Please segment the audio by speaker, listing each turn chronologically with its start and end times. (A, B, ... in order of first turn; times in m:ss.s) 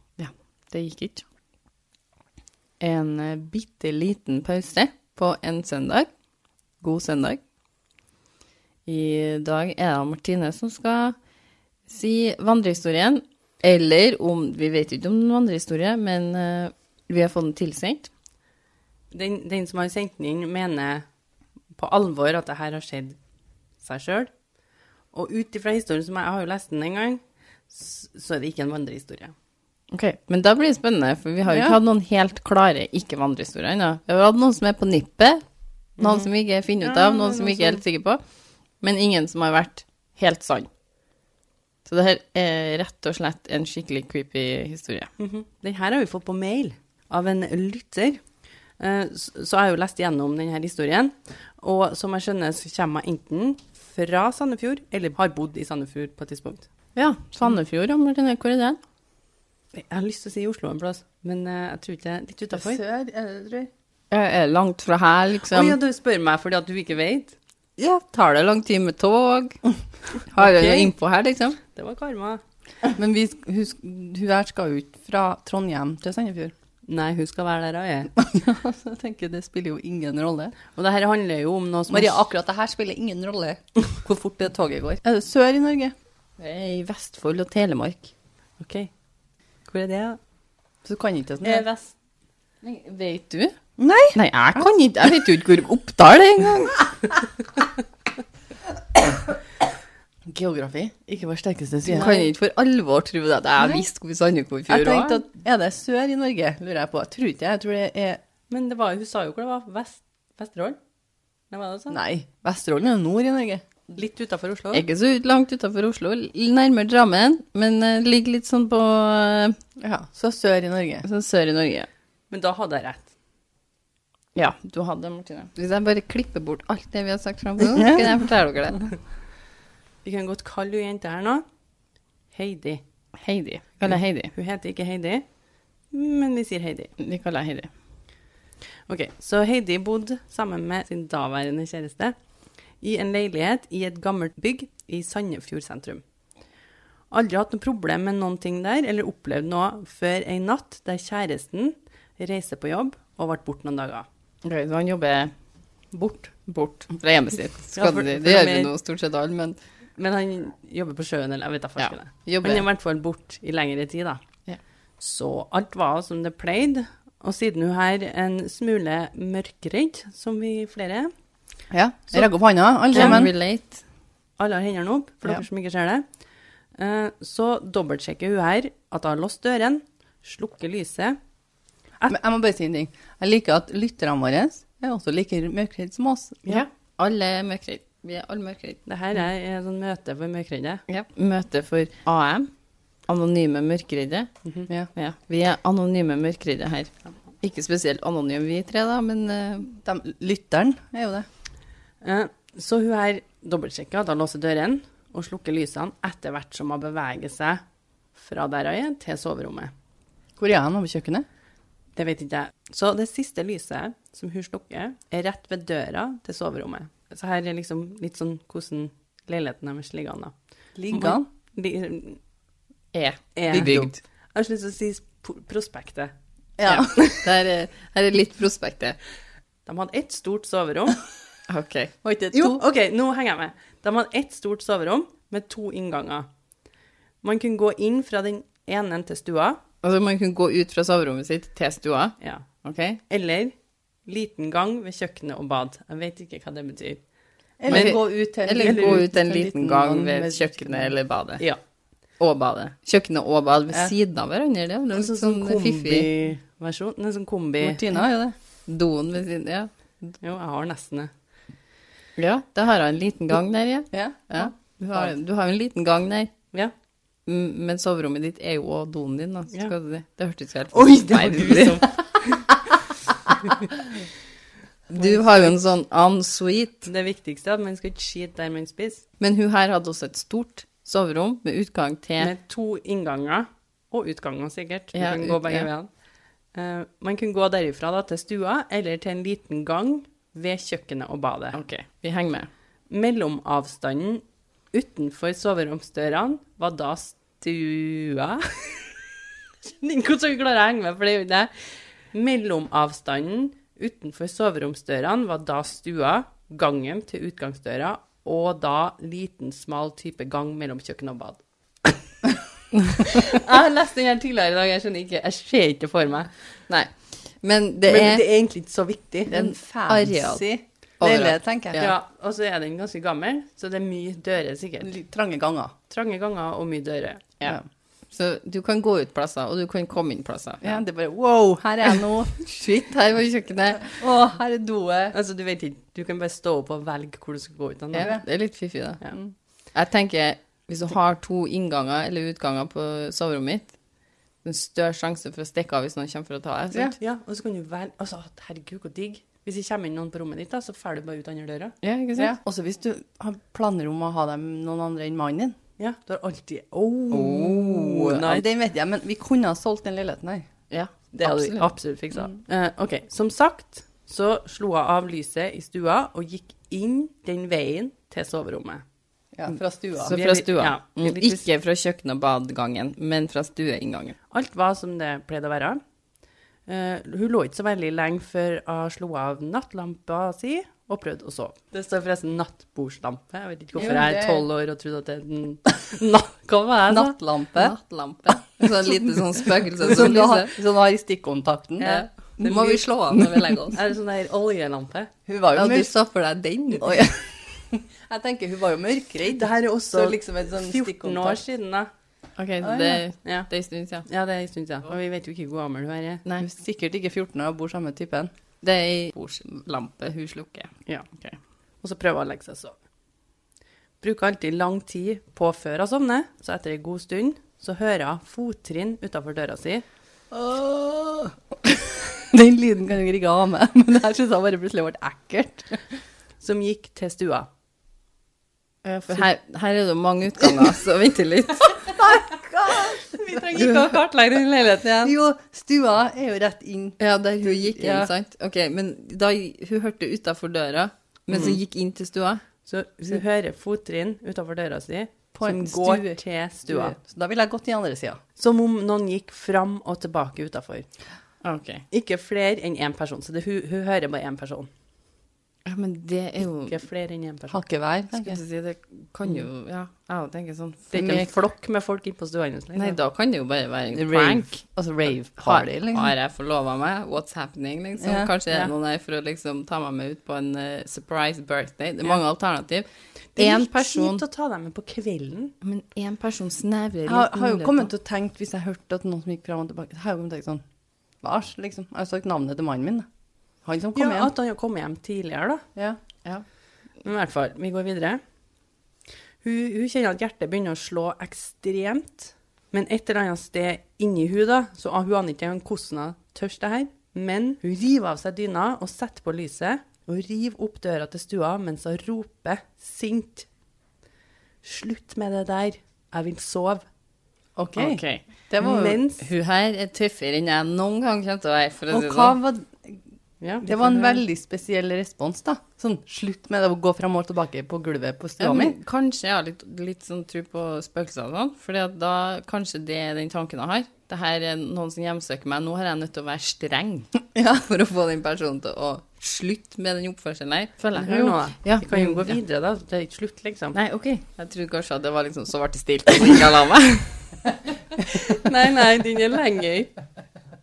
0:00.2-0:01.2 A
0:02.8-0:06.1 A
0:06.8-0:07.4 A
0:08.8-0:11.2 A
0:11.9-0:18.1 A
0:19.1-0:21.0 B
0:21.8-0:23.2 B
0:23.8-0:24.3 B
0:25.1-0:29.3 B
0:29.9-0:35.4 A
0:31.5-0:31.8 C
0:36.0-0:37.8 B
0:36.0-0:38.2 A
0:38.8-0:40.7 A
0:41.8-0:45.1 A
0:45.2-0:48.2 B
0:48.8-0:56.7 B
0:57.0-0:58.8 A
0:59.7-1:02.8 B
1:02.5-1:03.7 C
1:04.1-1:05.8 A
1:05.5-1:07.4 B
1:07.8-1:09.6 A
1:10.3-1:11.6 A
1:10.4-1:10.9 B
1:11.8-1:12.4 B
1:12.9-1:16.5 C
1:16.9-1:18.1 B
1:18.2-1:20.6 C
1:20.7-1:22.2 B
1:21.9-1:25.9 C
1:26.4-1:28.1 A
1:28.6-1:28.9 B
1:29.7-1:30.2 B
1:30.8-1:31.6 C
1:31.4-1:31.9 B
1:32.6-1:33.6 A
1:33.8-1:34.7 C
1:34.1-1:37.1 A
1:40.3-1:41.1 C
1:41.1-1:42.3 B
1:41.8-1:42.2 C
1:41.9-1:45.2 A
1:43.6-1:43.9 C
1:44.7-1:48.2 C
1:48.5-1:50.8 B
1:51.5-1:52.0 B
1:51.9-1:53.7 C
1:53.9-1:54.8 B
1:54.7-1:59.6 A
1:59.8-2:01.0 C
2:01.0-2:01.9 A
2:02.3-2:03.1 B
2:04.3-2:08.9 A
2:07.7-2:08.2 C
2:10.0-2:11.4 B
2:12.3-2:12.8 B
2:13.2-2:14.3 A
2:13.8-2:15.2 B
2:15.9-2:16.9 B
2:17.0-2:17.7 A
2:18.9-2:22.2 B
2:22.8-2:26.0 B
2:27.1-2:34.0 B
2:34.4-2:35.3 A
2:35.9-2:36.3 B
2:36.4-2:39.6 A
2:37.8-2:38.7 B
2:40.0-2:44.2 B
2:41.8-2:42.6 A
2:45.0-2:51.1 B
2:51.7-2:53.3 C
2:52.9-2:53.8 A
2:52.9-2:53.2 B
2:54.4-2:56.0 B
2:56.8-3:01.2 B
3:02.1-3:06.4 C
3:06.5-3:08.8 A
3:08.8-3:10.8 B
3:10.9-3:12.5 A
3:13.1-3:14.3 A
3:14.4-3:14.7 B
3:14.9-3:19.7 A
3:19.8-3:21.3 C
3:22.0-3:27.6 B
3:28.2-3:29.7 B
3:30.4-3:31.2 C
3:32.0-3:40.3 B
3:40.8-3:41.3 C
3:40.9-3:42.2 B
3:42.9-3:43.9 A
3:43.4-3:46.1 B
3:43.5-3:43.9 C
3:46.6-3:46.9 C
3:46.7-3:47.3 B
3:46.7-3:49.0 A
3:49.6-3:51.0 B
3:51.5-3:51.9 A
3:52.0-3:52.6 C
3:52.3-3:56.3 B
3:57.2-3:59.6 B
3:59.8-4:03.0 A
4:02.2-4:02.4 B
4:03.1-4:03.5 B
4:04.0-4:07.0 B
4:07.6-4:10.9 C
4:07.7-4:08.0 B
4:07.7-4:11.4 A
4:08.5-4:09.0 B
4:12.2-4:16.1 A
4:14.9-4:17.8 B
4:17.6-4:18.3 C
4:18.7-4:20.1 A
4:20.2-4:21.1 B
4:22.2-4:26.3 A
4:23.9-4:24.5 C
4:27.2-4:31.8 A
4:30.7-4:32.6 B
4:34.9-4:36.9 A
4:34.9-4:35.7 B
4:36.8-4:39.0 B
4:39.2-4:42.3 A
4:42.2-4:45.9 B
4:44.9-4:45.7 A
4:46.5-4:51.6 B
4:51.5-4:52.5 A
4:52.9-5:12.0 B
5:12.9-5:16.3 B
5:16.7-5:18.2 A
5:17.8-5:19.3 B
5:19.3-5:20.4 A
5:19.3-5:21.9 C
5:21.0-5:21.4 A
5:21.7-5:24.9 B
5:24.8-5:25.7 C
5:25.9-5:27.3 B
5:28.1-5:30.8 A
5:30.6-5:32.4 C
5:32.3-5:34.0 A
5:33.8-5:35.1 C
5:35.1-5:38.1 B
5:37.9-5:39.0 A
5:38.0-5:38.2 C
5:39.7-5:43.8 A
5:44.4-5:46.9 A
5:47.0-5:51.8 B
5:51.8-5:52.4 A
5:52.2-5:55.6 C
5:55.8-5:58.4 B
5:57.1-5:58.2 A
5:58.2-6:00.4 C
6:00.7-6:01.7 A
6:01.1-6:08.8 B
6:09.3-6:10.2 C
6:10.0-6:14.1 A
6:10.1-6:11.5 B
6:14.3-6:15.8 B
6:16.7-6:27.2 B
6:23.8-6:24.4 C
6:26.9-6:27.8 C
6:27.5-6:30.5 A
6:29.8-6:32.1 C
6:31.8-6:33.8 A
6:31.8-6:32.9 B
6:33.7-6:35.1 B
6:35.3-6:36.0 C
6:35.5-6:37.1 A
6:36.8-6:41.4 C
6:39.4-6:41.9 B
6:42.4-6:44.1 A
6:42.6-6:43.0 C
6:43.2-6:43.5 B
6:44.0-6:46.2 B
6:46.4-6:48.3 C
6:48.6-6:51.4 A
6:51.8-6:52.7 B
6:54.0-6:59.8 B
7:00.3-7:06.0 C
7:06.4-7:07.5 B
7:08.8-7:11.9 A
7:11.9-7:13.0 C
7:12.8-7:15.1 B
7:15.0-7:18.1 C
7:17.0-7:22.4 A
7:21.3-7:21.6 B
7:22.7-7:27.0 B
7:25.3-7:28.2 C
7:28.4-7:30.9 B
7:31.4-7:31.8 A
7:31.9-7:34.7 B
7:35.6-7:36.8 A
7:36.6-7:37.6 B
7:37.5-7:38.4 C
7:38.1-7:41.3 A
7:40.9-7:43.0 B
7:42.7-7:44.6 A
7:43.9-7:46.1 C
7:45.4-7:54.2 A
7:48.0-7:48.3 C
7:53.4-7:55.5 B
7:55.6-7:57.9 A
7:57.0-8:00.6 C
8:01.2-8:03.0 C
8:03.6-8:04.3 C
8:03.9-8:05.6 B
8:07.0-8:08.2 B
8:09.4-8:23.5 B
8:24.6-8:26.8 B
8:27.6-8:29.0 C
8:27.8-8:28.2 A
8:28.6-8:29.3 B
8:29.2-8:32.4 A
8:31.9-8:33.0 C
8:33.4-8:33.8 B
8:33.6-8:38.8 C
8:38.4-8:52.4 A
8:47.3-8:47.7 C
8:51.0-8:53.8 B
8:53.7-8:57.3 A
8:58.3-8:59.9 B